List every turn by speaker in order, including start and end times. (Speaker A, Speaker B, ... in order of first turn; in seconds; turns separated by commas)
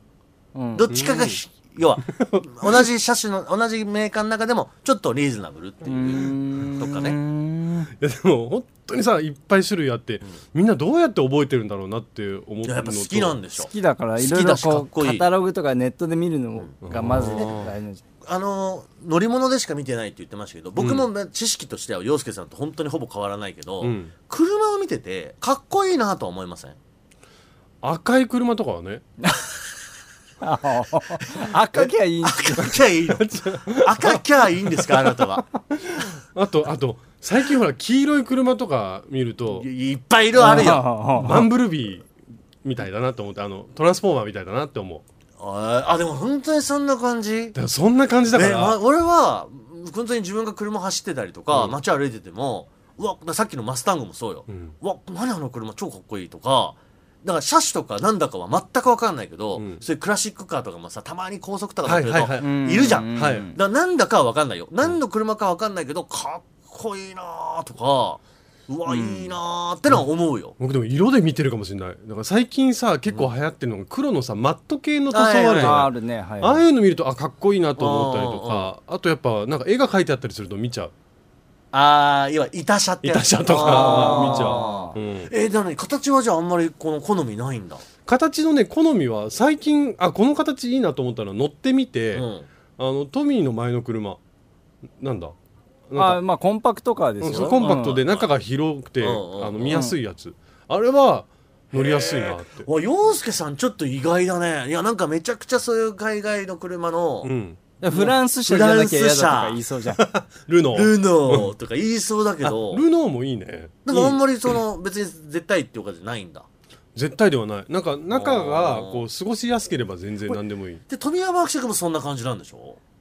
Speaker A: 0.5-0.8, Speaker B: 0.7-7.2, Speaker C: 0.9-1.4, Speaker C: 2.2-2.9, Speaker A: 5.8-7.9, Speaker C: 8.0-13.4, Speaker B: 12.6-15.2, Speaker A: 13.6-18.0, Speaker C: 16.8-17.7, Speaker B: 17.2-17.5, Speaker B: 18.2-26.8, Speaker C: 20.8-21.1, Speaker C: 23.8-24.1, Speaker C: 27.8-29.0, Speaker A: 30.4-32.6, Speaker B: 32.2-35.4, Speaker C: 33.1-39.7, Speaker B: 39.5-40.8, Speaker A: 40.4-41.5, Speaker C: 40.6-42.1, Speaker C: 42.6-45.0, Speaker B: 45.4-47.5, Speaker C: 47.5-48.8, Speaker B: 48.3-70.5, Speaker C: 59.5-59.8, Speaker C: 61.8-62.4, Speaker A: 62.4-63.5, Speaker C: 63.1-63.5, Speaker C: 68.9-69.3, Speaker C: 70.6-80.9, Speaker B: 75.1-75.8, Speaker A: 75.6-76.6, Speaker B: 77.8-78.7, Speaker B: 81.7-87.8, Speaker C: 83.0-85.3, Speaker A: 83.6-84.9, Speaker C: 88.0-92.2, Speaker B: 92.1-92.5, Speaker C: 92.8-94.2, Speaker C: 95.0-95.3, Speaker C: 95.9-96.2, Speaker A: 95.9-98.0, Speaker C: 97.2-102.7, Speaker B: 97.3-98.3, Speaker B: 99.0-99.8, Speaker B: 101.7-107.3, Speaker C: 107.2-107.6, Speaker A: 107.8-110.0, Speaker B: 107.9-109.6, Speaker C: 110.0-111.5, Speaker B: 110.7-112.8, Speaker C: 112.4-114.5, Speaker B: 113.8-116.5, Speaker C: 116.9-120.8, Speaker B: 118.1-119.0, Speaker B: 120.9-122.8